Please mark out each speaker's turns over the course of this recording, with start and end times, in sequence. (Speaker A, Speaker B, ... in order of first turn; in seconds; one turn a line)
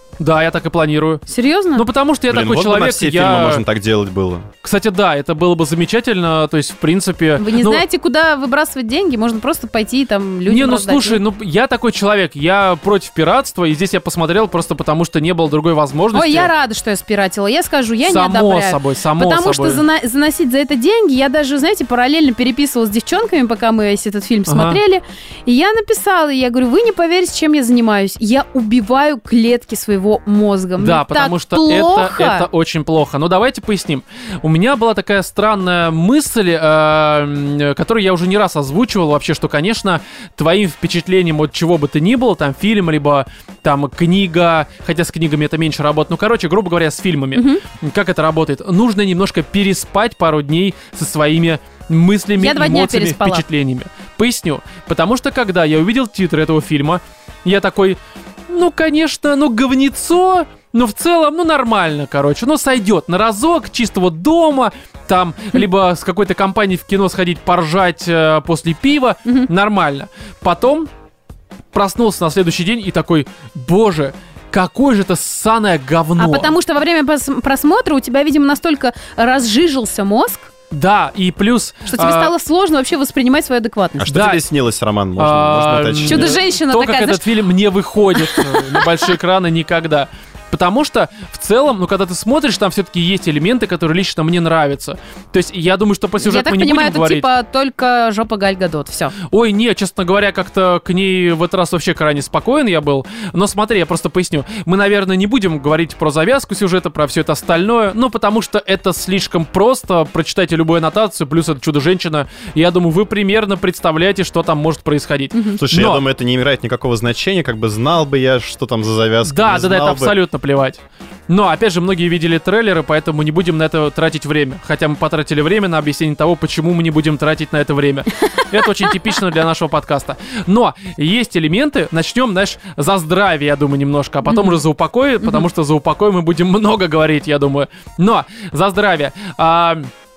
Speaker A: 0.2-3.6
Speaker B: 1.3-1.9
Speaker C: 2.3-4.5
Speaker A: 4.6-7.8
Speaker B: 7.4-11.2
Speaker A: 10.5-16.5
Speaker B: 16.1-32.5
Speaker A: 18.0-19.8
Speaker A: 24.5-24.8
Speaker A: 30.8-70.9
Speaker B: 47.3-47.6
Speaker B: 52.4-53.4
Speaker A: 71.7-76.5
Speaker B: 76.2-80.5
Speaker A: 80.7-82.3
Speaker B: 81.9-84.1
Speaker C: 84.0-86.4
Speaker A: 84.1-84.4
Speaker A: 85.2-97.2
Speaker B: 86.0-87.2
Speaker B: 88.2-88.9
Speaker B: 96.2-99.1
Speaker A: 99.3-116.0
Speaker B: 115.3-115.6
Speaker C: 115.6-120.2
Speaker A: 119.2-139.9
Speaker B: 134.2-134.6